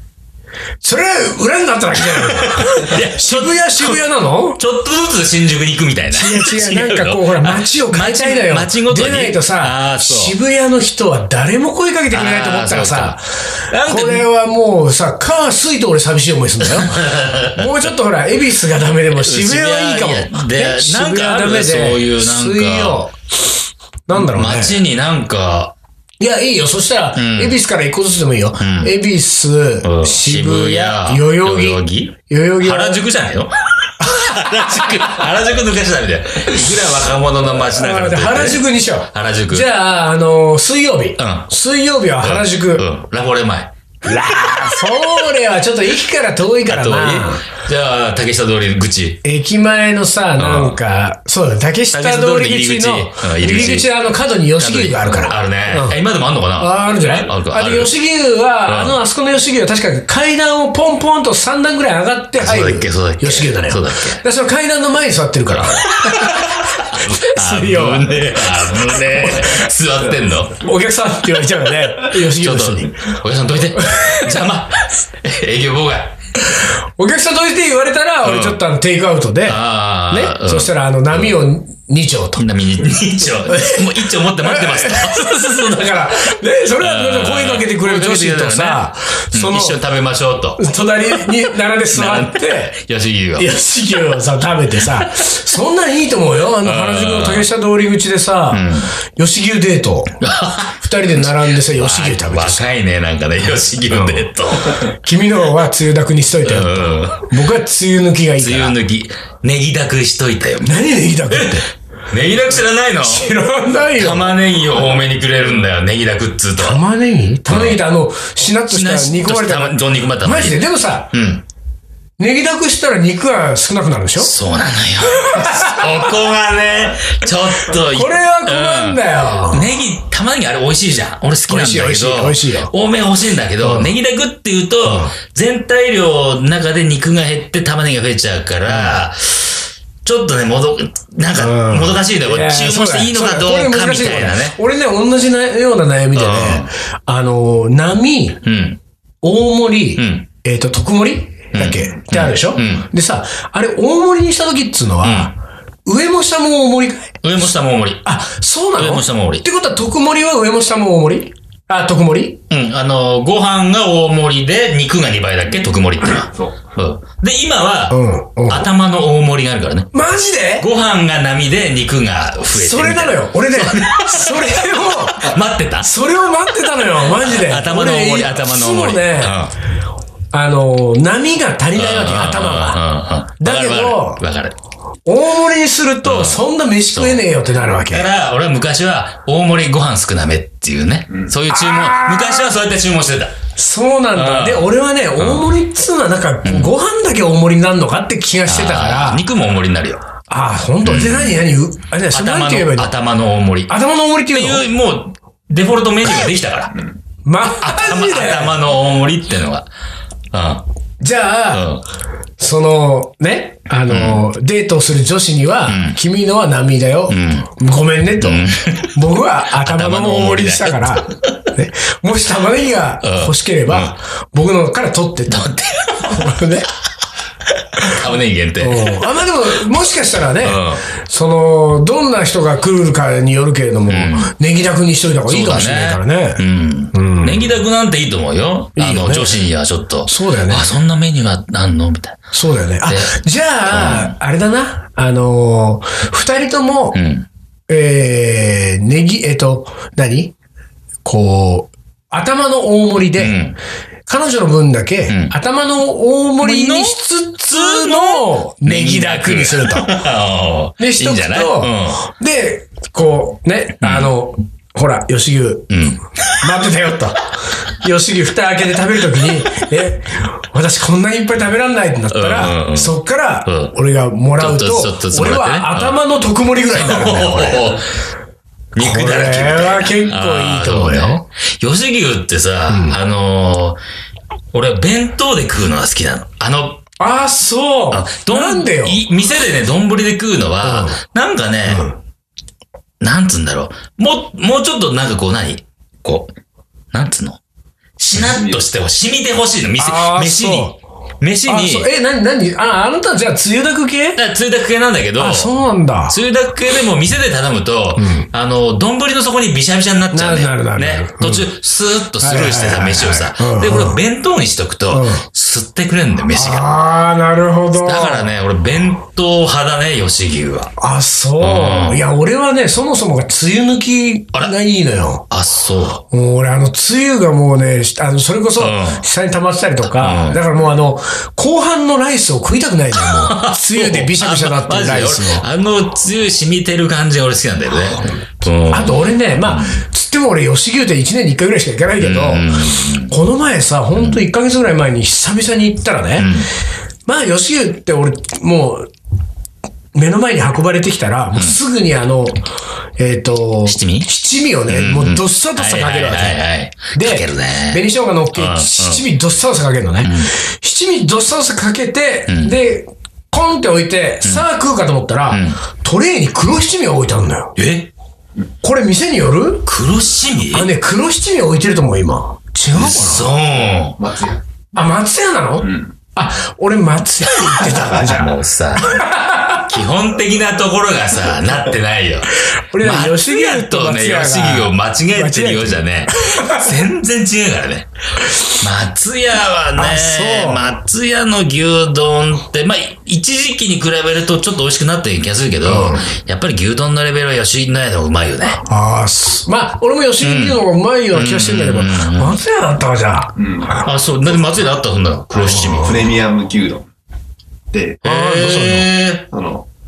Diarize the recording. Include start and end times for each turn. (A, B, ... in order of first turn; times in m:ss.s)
0:00.8-0:04.6 A
0:02.2-0:10.4 B
0:06.1-0:13.3 A
0:12.1-0:14.3 B
0:13.8-0:23.1 A
0:16.6-0:17.8 B
0:19.1-0:23.0 B
0:24.1-0:24.8 A
0:24.1-0:25.7 B
0:26.2-0:33.0 A
0:27.2-0:27.6 B
0:28.6-0:28.9 B
0:29.8-0:39.7 B
0:34.0-0:35.2 A
0:37.7-0:42.8 A
0:41.2-0:41.5 B
0:42.2-0:43.7 B
0:44.0-0:47.4 A
0:46.7-0:49.2 B
0:49.2-0:56.0 A
0:50.4-0:50.8 B
0:51.9-0:53.9 B
0:54.6-0:57.9 B
0:56.6-1:09.7 A
0:58.6-0:59.0 B
1:02.4-1:04.2 B
1:05.5-1:10.6 B
1:10.6-1:13.1 A
1:11.9-1:16.1 B
1:13.8-1:14.2 A
1:16.5-1:22.4 A
1:18.2-1:18.6 B
1:19.4-1:21.4 B
1:22.4-1:25.5 B
1:23.5-1:29.8 A
1:26.8-1:30.6 B
1:30.6-1:32.7 A
1:31.9-1:33.5 B
1:33.4-1:40.2 A
1:36.6-1:37.5 B
1:38.5-1:38.9 B
1:40.2-1:44.9 B
1:40.8-1:42.6 A
1:43.9-1:44.2 A
1:44.9-1:48.8 A
1:46.4-1:47.3 B
1:48.4-1:50.7 B
1:50.6-1:51.7 A
1:51.3-1:53.3 B
1:53.0-1:54.4 A
1:54.0-1:56.8 B
1:56.6-2:01.1 A
1:57.5-1:57.8 B
1:58.7-2:00.6 B
2:01.1-2:01.4 B
2:02.2-2:04.3 A
2:04.2-2:24.6 B
2:05.0-2:06.1 A
2:07.9-2:09.7 A
2:11.5-2:12.7 A
2:13.6-2:13.9 A
2:14.8-2:15.1 A
2:18.7-2:19.0 A
2:21.4-2:28.4 A
2:26.1-2:26.7 B
2:28.4-2:28.8 B
2:29.2-2:37.2 A
2:30.0-2:30.3 B
2:31.5-2:32.8 B
2:35.0-2:35.3 B
2:37.2-2:38.0 B
2:38.0-2:42.4 A
2:38.8-2:39.4 B
2:42.5-2:49.9 B
2:46.2-2:46.6 C
2:47.9-2:48.7 A
2:49.9-2:50.7 A
2:50.6-2:55.9 B
2:52.5-2:59.4 A
2:57.0-2:59.5 B
3:00.3-3:02.8 A
3:01.7-3:04.6 B
3:03.4-3:04.2 A
3:05.0-3:08.1 A
3:06.0-3:07.2 B
3:07.8-3:13.4 B
3:11.5-3:12.5 A
3:13.6-3:19.2 A
3:14.1-3:15.5 B
3:16.4-3:16.7 B
3:18.4-3:20.0 B
3:20.3-3:22.9 A
3:20.8-3:21.4 B
3:22.1-3:23.7 B
3:23.7-3:24.6 A
3:24.3-3:26.8 B
3:27.2-3:28.6 A
3:27.4-3:29.7 B
3:30.3-3:30.6 B
3:31.0-3:31.7 A
3:31.5-3:31.8 B
3:32.4-3:45.5 A
3:33.9-3:34.2 B
3:35.7-3:36.0 B
3:37.1-3:37.5 B
3:38.2-3:39.0 B
3:39.6-3:41.3 B
3:43.0-3:43.9 B
3:45.3-3:46.3 B
3:46.0-3:46.7 A
3:47.8-3:49.0 B
3:48.6-3:56.4 A
3:50.4-3:50.8 B
3:53.9-3:54.3 B
3:55.3-4:02.3 B
3:56.9-3:57.5 A
3:58.8-3:59.4 A
4:00.0-4:00.7 A
4:02.3-4:07.0 A
4:02.8-4:04.1 B
4:06.9-4:07.3 B
4:07.7-4:10.3 A
4:11.0-4:13.4 A
4:13.2-4:13.6 B
4:14.1-4:19.9 A
4:15.1-4:15.3 B
4:16.4-4:22.0 B
4:20.8-4:25.7 A
4:23.8-4:24.1 B
4:25.7-4:26.2 B
4:26.4-4:37.8 A
4:32.1-4:33.7 B
4:34.4-4:36.0 B
4:36.7-4:37.8 B
4:38.8-4:43.8 B
4:38.8-4:41.2 A
4:42.7-4:43.0 A
4:44.5-4:46.8 B
4:47.0-4:49.0 A
4:47.9-4:51.9 B
4:50.6-4:51.0 A
4:51.7-4:52.0 A
4:53.0-4:56.3 B
4:56.9-4:57.4 B
4:58.0-5:01.9 B
4:58.2-4:58.6 C
4:59.8-5:00.8 A
5:01.4-5:04.2 A
5:04.2-5:05.5 B
5:05.2-5:06.2 A
5:06.1-5:16.8 B
5:08.0-5:08.3 A
5:10.1-5:11.5 A
5:12.2-5:14.0 A
5:14.9-5:15.2 A
5:16.3-5:18.3 A
5:17.8-5:20.7 B
5:20.8-5:25.3 A
5:21.4-5:22.0 B
5:25.3-5:26.0 B
5:26.1-5:35.4 A
5:28.6-5:29.0 B
5:29.8-5:30.4 B
5:33.0-5:39.8 B
5:38.7-5:42.6 A
5:42.0-5:43.2 B
5:43.1-5:46.3 A
5:44.0-5:44.2 B
5:46.2-5:46.5 B
5:47.0-5:48.9 A
5:49.9-5:52.4 A
5:53.0-5:56.4 A
5:53.6-5:54.1 B
5:54.7-5:57.8 B
5:56.9-6:07.6 A
5:58.3-5:59.0 B
6:00.0-6:00.3 B
6:02.3-6:02.6 B
6:05.3-6:05.6 B
6:07.6-6:07.9 B
6:08.6-6:09.7 A
6:09.6-6:10.7 B
6:10.5-6:13.3 A
6:12.7-6:14.0 B
6:14.0-6:14.4 C
6:14.7-6:19.7 A
6:15.6-6:15.9 C
6:17.7-6:27.9 B
6:22.7-6:26.7 A
6:28.6-6:38.6 B
6:29.8-6:30.7 A
6:35.6-6:36.0 A
6:38.6-6:43.4 A
6:40.2-6:42.4 B
6:43.4-6:43.8 C
6:43.8-6:46.0 B
6:45.4-6:46.0 A
6:45.8-6:46.9 C
6:47.7-6:48.0 C
6:48.0-6:49.3 B
6:48.0-6:48.9 A
6:49.3-6:49.6 C